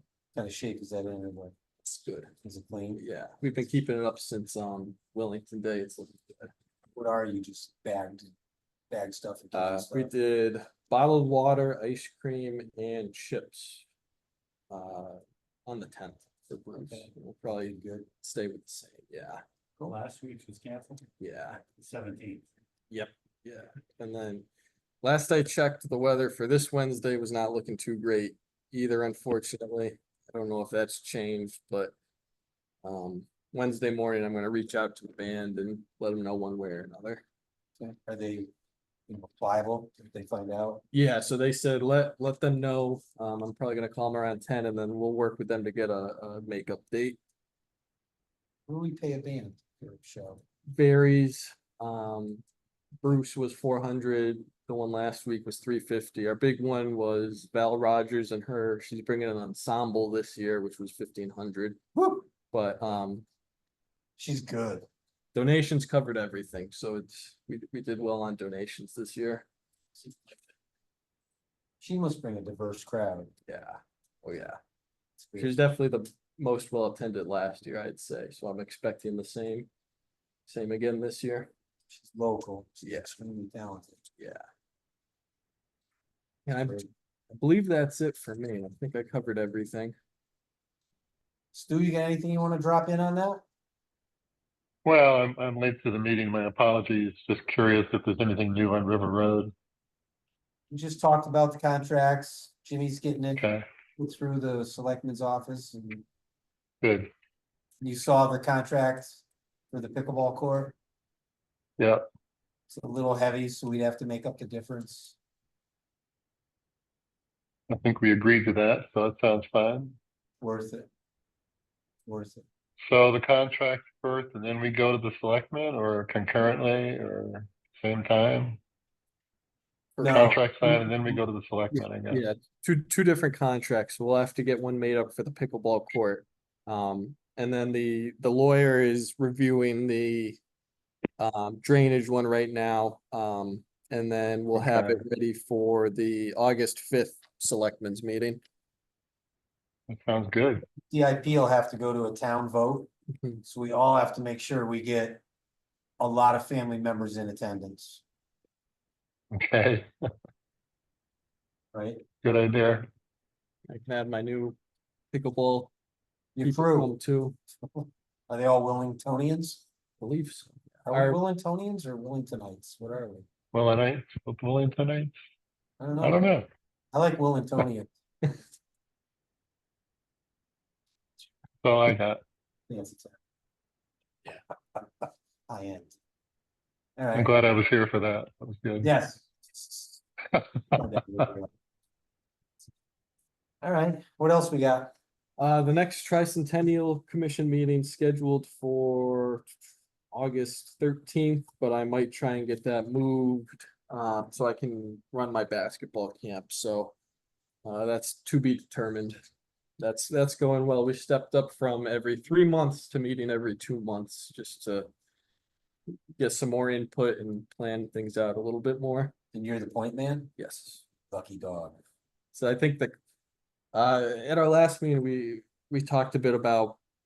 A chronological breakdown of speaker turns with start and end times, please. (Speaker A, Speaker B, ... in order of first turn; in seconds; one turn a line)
Speaker A: 0.3-1.5
Speaker B: 1.8-2.3
Speaker A: 2.4-3.0
Speaker B: 3.0-6.5
Speaker A: 6.9-8.3
Speaker A: 8.9-10.1
Speaker B: 9.5-13.8
Speaker B: 14.7-19.4
Speaker A: 16.9-18.1
Speaker C: 19.9-21.1
Speaker B: 21.2-21.6
Speaker C: 21.7-22.5
Speaker B: 22.9-24.5
Speaker B: 25.0-31.9
Speaker B: 32.8-37.2
Speaker A: 37.8-38.5
Speaker A: 39.1-40.8
Speaker B: 40.9-47.2
Speaker A: 48.7-50.4
Speaker B: 50.7-52.4
Speaker B: 53.0-61.8
Speaker A: 61.9-62.2
Speaker B: 62.5-63.2
Speaker A: 64.2-64.9
Speaker B: 65.3-69.5
Speaker A: 71.8-73.3
Speaker B: 73.5-74.6
Speaker A: 75.2-75.6
Speaker B: 75.4-79.7
Speaker B: 80.5-81.5
Speaker A: 81.9-84.1
Speaker B: 82.8-83.1
Speaker B: 86.5-89.9
Speaker A: 91.5-93.4
Speaker D: 94.8-99.5
Speaker A: 100.7-103.4
Speaker D: 103.3-103.6
Speaker A: 104.0-106.0
Speaker D: 106.8-107.1
Speaker A: 107.8-110.8
Speaker A: 112.7-115.2
Speaker D: 117.7-120.0
Speaker A: 120.4-120.9
Speaker A: 122.0-122.4
Speaker D: 122.8-128.6
Speaker B: 130.0-130.8
Speaker A: 130.0-130.3
Speaker D: 130.0-132.2
Speaker B: 131.7-140.4
Speaker B: 141.2-148.4
Speaker D: 144.6-145.0
Speaker D: 149.9-150.6
Speaker A: 150.9-152.9
Speaker A: 153.4-155.2
Speaker A: 156.0-158.0
Speaker D: 159.3-159.9
Speaker A: 161.7-162.0
Speaker D: 162.2-162.9
Speaker B: 163.7-164.6
Speaker B: 165.1-165.7
Speaker A: 166.3-167.0
Speaker B: 166.4-167.4
Speaker A: 167.6-169.6
Speaker B: 170.0-171.2
Speaker A: 170.8-173.3
Speaker D: 173.5-175.2
Speaker A: 175.8-176.2
Speaker D: 176.0-176.5
Speaker A: 176.9-177.9
Speaker D: 181.6-182.2
Speaker A: 182.7-183.1
Speaker A: 184.8-185.9
Speaker A: 187.0-187.3
Speaker D: 187.1-188.9
Speaker A: 188.8-189.9
Speaker D: 190.3-190.8
Speaker A: 190.7-191.5
Speaker A: 193.6-194.9
Speaker B: 195.4-199.5
Speaker B: 200.1-206.9
Speaker B: 207.6-209.2
Speaker B: 209.8-214.9
Speaker B: 216.2-219.1
Speaker A: 219.3-220.3
Speaker B: 220.4-220.8
Speaker A: 221.1-221.8
Speaker B: 222.3-222.9
Speaker B: 223.7-226.8